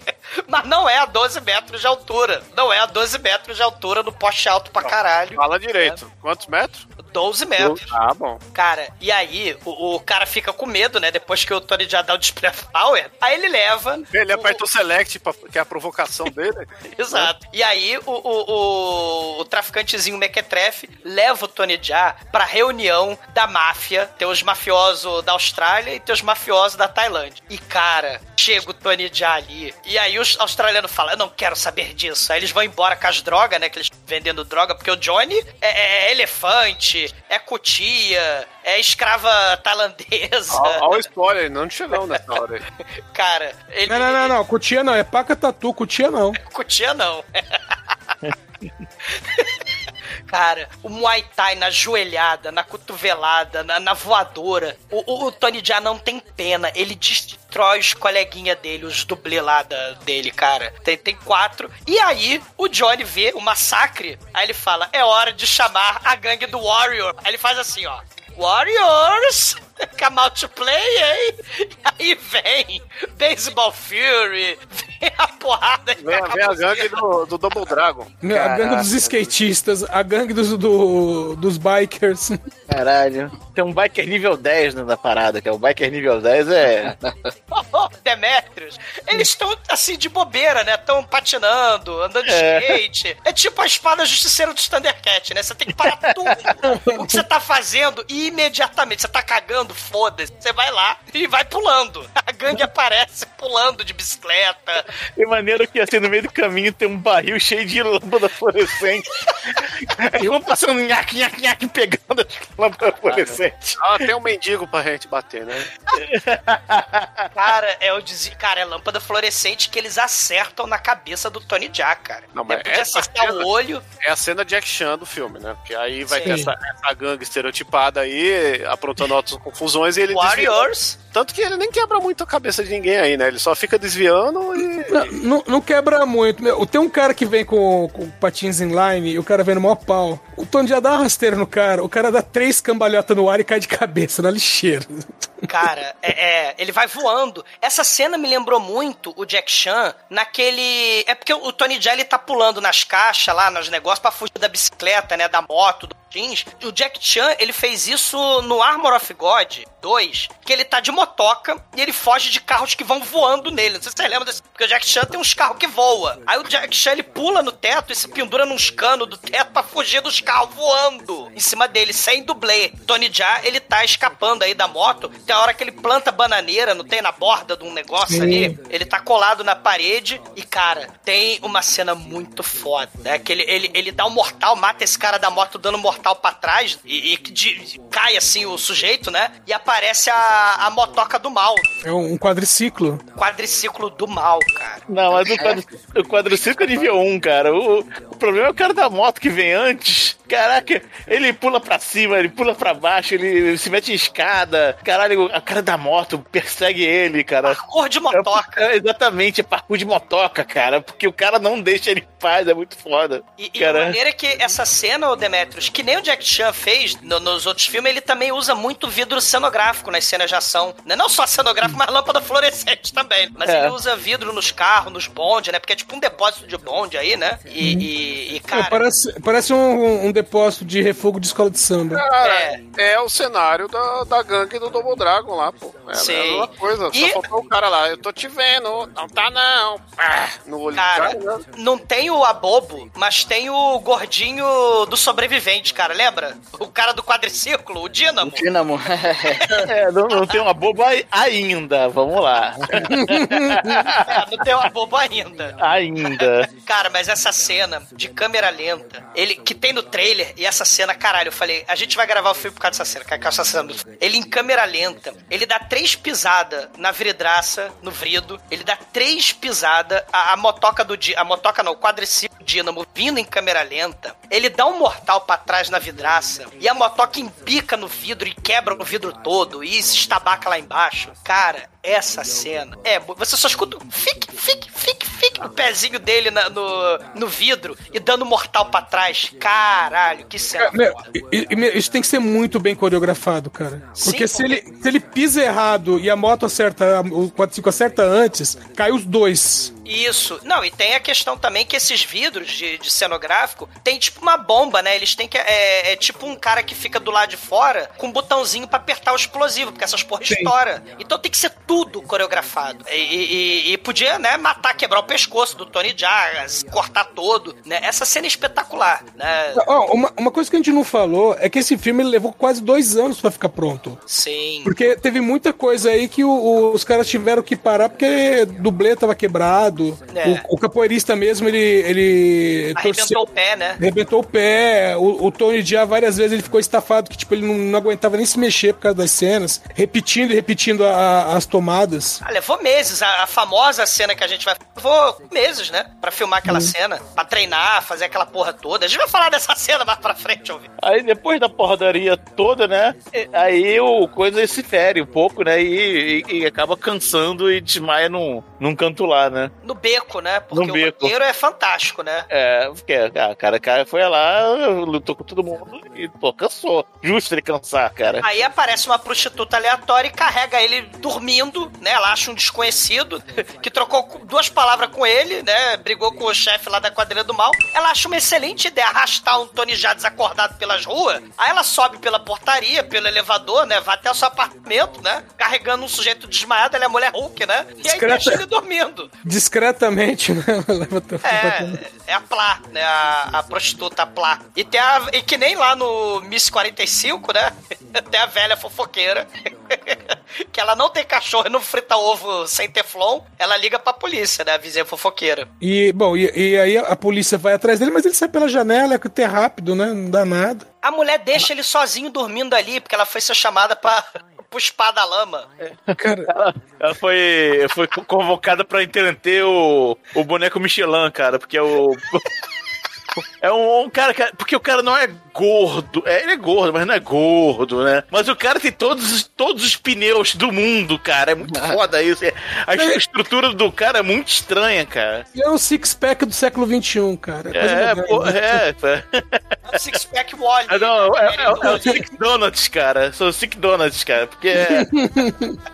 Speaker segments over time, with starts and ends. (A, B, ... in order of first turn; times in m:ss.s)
0:00.5-0:06.0 A
0:04.8-0:06.9 B
0:07.0-0:07.9 A
0:07.6-0:08.4 B
0:08.5-0:14.6 A
0:14.1-0:17.3 B
0:17.0-0:40.9 A
0:40.5-0:42.6 B
0:43.1-0:44.3 A
0:43.9-0:46.4 C
0:46.4-0:47.6 A
0:50.3-1:17.0 A
1:16.0-1:19.3 B
1:18.2-1:22.4 C
1:22.7-1:27.0 D
1:26.9-1:27.2 E
1:27.5-1:44.8 A
1:32.3-1:32.8 D
1:35.8-1:36.5 D
1:36.6-1:37.2 C
1:45.2-1:54.0 D
1:53.1-1:55.7 B
1:56.0-1:57.3 D
1:57.4-2:03.8 A
2:02.3-2:03.5 B
2:04.0-2:10.6 B
2:06.1-2:06.5 A
2:10.1-2:11.0 A
2:11.1-2:15.1 B
2:14.9-2:25.5 C
2:25.5-3:11.7 A
2:58.1-2:58.6 C
3:11.8-3:13.0 C
3:13.2-3:15.5 A
3:14.9-3:27.6 D
3:15.4-3:15.6 E
3:27.4-3:28.6 A
3:28.1-3:34.0 D
3:33.4-3:48.8 A
3:43.4-3:43.8 D
3:47.6-3:47.9 C
3:48.5-3:52.0 C
3:51.9-4:01.4 B
3:52.2-3:52.6 A
3:55.9-3:57.2 A
4:00.8-4:08.5 A
4:08.2-4:09.4 E
4:09.7-4:14.0 D
4:10.1-4:10.4 A
4:12.9-4:13.5 C
4:14.1-4:51.0 A
4:15.6-4:16.5 D
4:50.6-4:59.7 C
4:54.0-4:54.6 A
4:59.8-5:19.6 A
5:10.3-5:10.5 C
5:19.6-5:24.0 C
5:24.1-5:24.7 A
5:24.6-5:33.2 C
5:30.1-5:30.4 A
5:32.8-5:33.8 A
5:33.8-5:42.2 C
5:42.2-5:50.7 A
5:46.5-5:46.7 C
5:50.8-5:59.5 D
5:59.6-6:02.3 A
6:00.5-6:01.1 D
6:02.3-6:08.2 D
6:08.2-6:29.1 A
6:27.8-6:28.4 C
6:29.2-6:31.8 C
6:31.2-6:45.5 A
6:45.6-6:50.6 C
6:50.8-6:55.5 A
6:55.6-7:02.2 D
6:56.0-6:56.3 C
7:03.4-7:15.2 D
7:11.5-7:11.8 E
7:12.7-7:13.0 C
7:15.4-7:18.6 C
7:17.5-7:19.6 D
7:19.7-7:22.0 A
7:20.7-7:24.9 D
7:21.7-7:21.9 C
7:24.6-7:25.6 C